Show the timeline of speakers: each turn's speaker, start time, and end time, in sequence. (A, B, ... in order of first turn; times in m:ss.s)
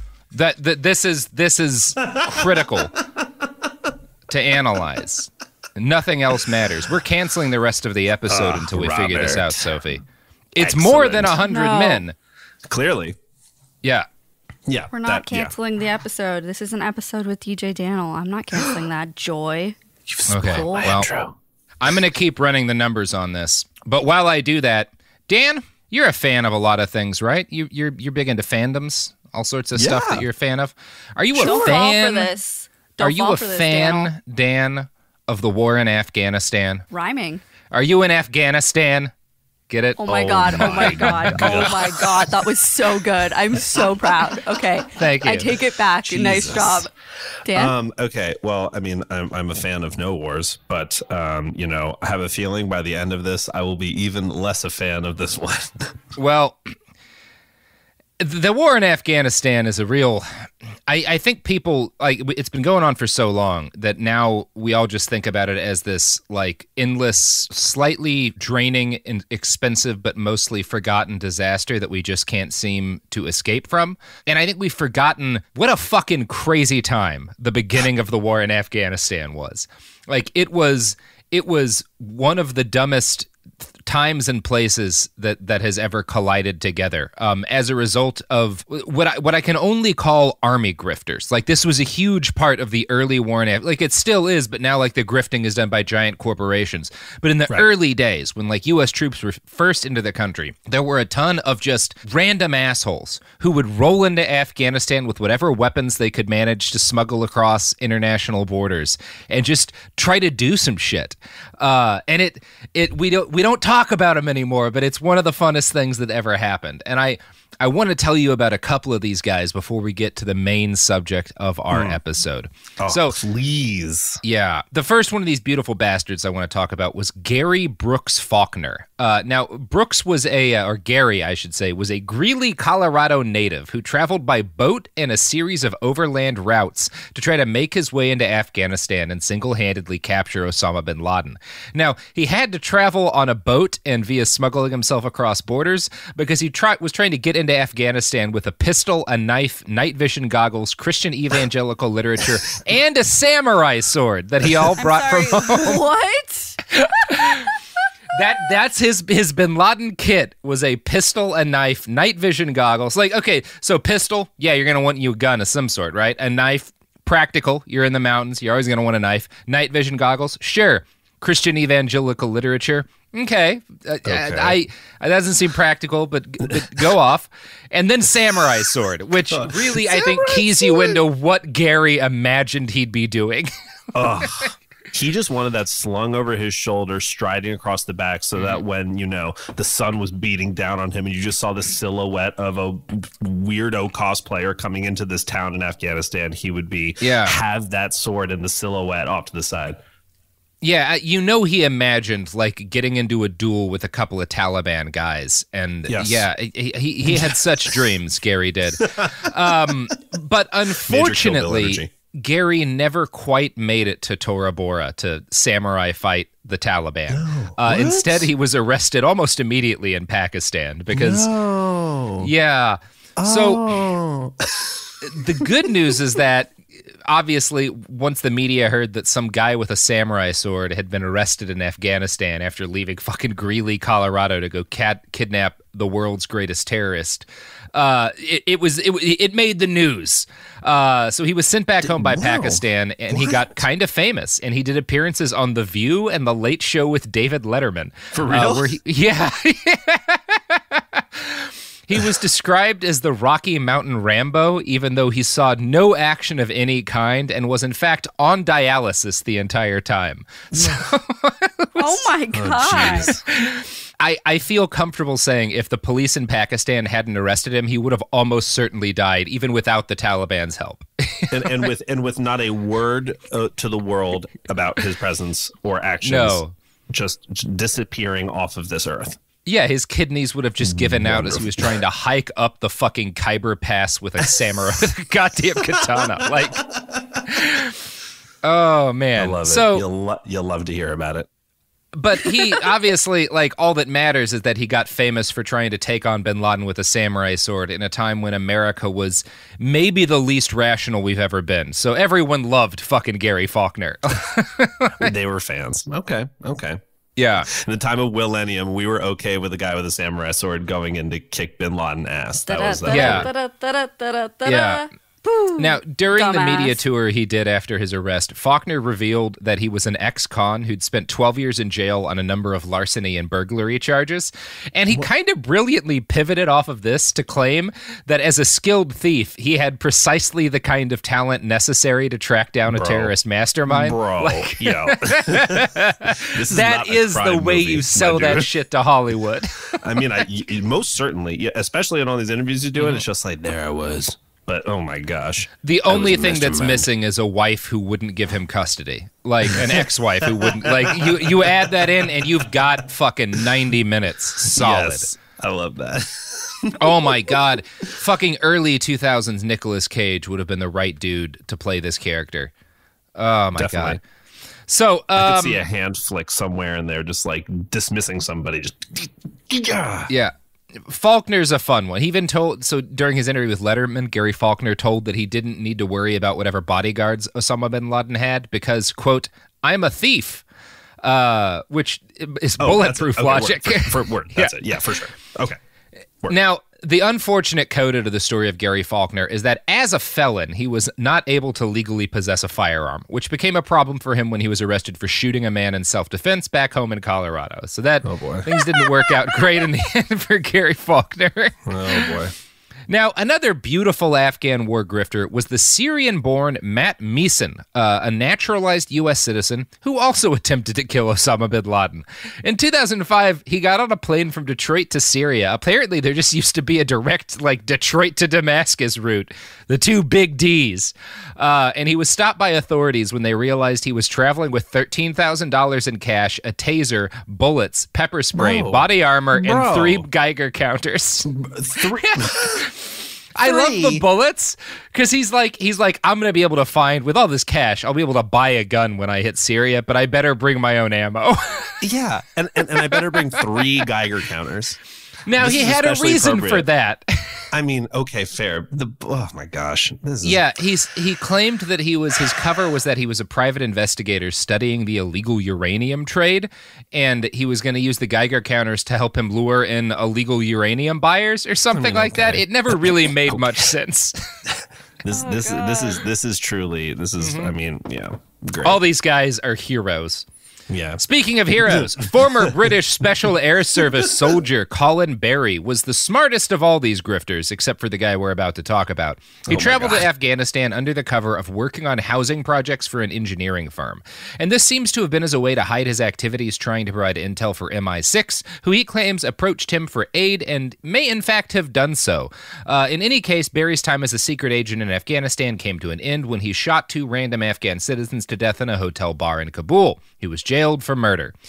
0:00.3-0:03.0 A
0:04.3-0:12.1 A
0:08.3-0:09.8 B
0:10.6-0:11.4 B
0:11.4-0:12.0 C
0:12.7-0:13.2 B
0:14.7-0:15.5 B
0:14.9-0:19.8 C
0:20.1-0:21.4 B
0:20.3-0:21.1 A
0:20.4-0:21.0 C
0:21.8-0:32.3 A
0:29.7-0:30.2 B
0:31.4-0:31.8 B
0:31.4-0:34.1 C
0:33.0-0:36.8 A
0:36.9-0:37.4 C
0:37.7-0:39.1 A
0:39.7-0:41.8 A
0:40.0-0:46.9 C
0:40.1-0:42.4 B
0:44.9-0:45.5 A
0:46.0-0:46.9 B
0:47.4-0:47.7 C
0:47.4-0:56.0 B
0:56.2-0:56.7 A
0:58.2-1:23.3 A
1:23.8-2:03.2 A
2:01.7-2:02.0 B
2:02.8-2:04.2 B
2:04.2-2:35.8 A
2:34.8-2:36.6 C
2:36.7-2:37.5 A
2:38.1-3:04.2 A
2:54.0-2:54.6 B
2:59.3-3:01.0 B
3:03.9-3:19.8 B
3:17.0-3:17.4 A
3:20.6-3:41.3 A
3:25.9-3:26.2 B
3:27.0-3:27.8 B
3:28.8-3:29.3 B
3:30.8-3:31.9 B
3:37.1-3:38.3 B
3:40.9-3:42.3 B
3:42.2-3:43.8 A
3:43.2-3:45.7 B
3:45.0-4:22.1 A
4:01.8-4:03.5 B
4:08.1-4:08.8 B
4:20.5-4:20.9 B
4:21.8-4:23.1 C
4:22.3-4:23.2 B
4:22.8-4:31.7 A
4:31.3-4:39.2 B
4:36.0-4:36.5 A
4:39.4-4:46.6 A
4:40.6-4:41.8 B
4:45.7-4:47.3 B
4:47.2-4:47.8 A
4:48.4-4:49.8 A
4:49.2-4:51.3 B
4:51.9-5:05.1 A
4:52.2-4:52.6 B
5:05.0-5:06.8 B
5:07.2-5:07.5 A
5:07.5-5:13.3 B
5:12.5-5:16.8 C
5:12.9-5:13.3 A
5:14.4-5:14.8 A
5:15.6-5:39.8 A
5:32.7-5:33.1 B
5:33.7-5:38.5 B
5:39.8-5:46.9 B
5:42.8-5:43.0 A
5:45.6-5:55.1 A
5:49.4-5:52.5 B
5:54.4-5:57.3 B
5:56.8-6:02.5 A
6:03.2-6:04.0 A
6:03.5-6:04.0 B
6:04.7-6:05.7 A
6:05.2-6:10.1 B
6:10.1-6:20.4 A
6:21.0-6:24.8 A
6:22.6-6:25.6 B
6:26.3-6:42.2 A
6:38.0-6:39.1 B
6:41.6-6:42.3 B
6:42.9-7:21.8 A
7:08.3-7:10.0 B
7:11.2-7:12.7 B
7:13.4-7:14.0 B
7:21.8-7:24.8 B
7:22.8-7:23.8 A
7:25.2-7:27.4 A
7:25.4-7:26.6 B
7:27.5-7:30.4 B
7:30.2-7:44.2 A
7:41.7-7:43.7 B
7:44.4-7:48.8 B
7:45.1-7:46.0 C
7:47.2-7:47.5 A
7:48.6-7:50.2 A
7:50.7-7:51.0 B
7:51.0-8:21.3 A
7:51.7-7:52.7 B
7:53.8-7:54.4 B
7:59.5-8:00.0 B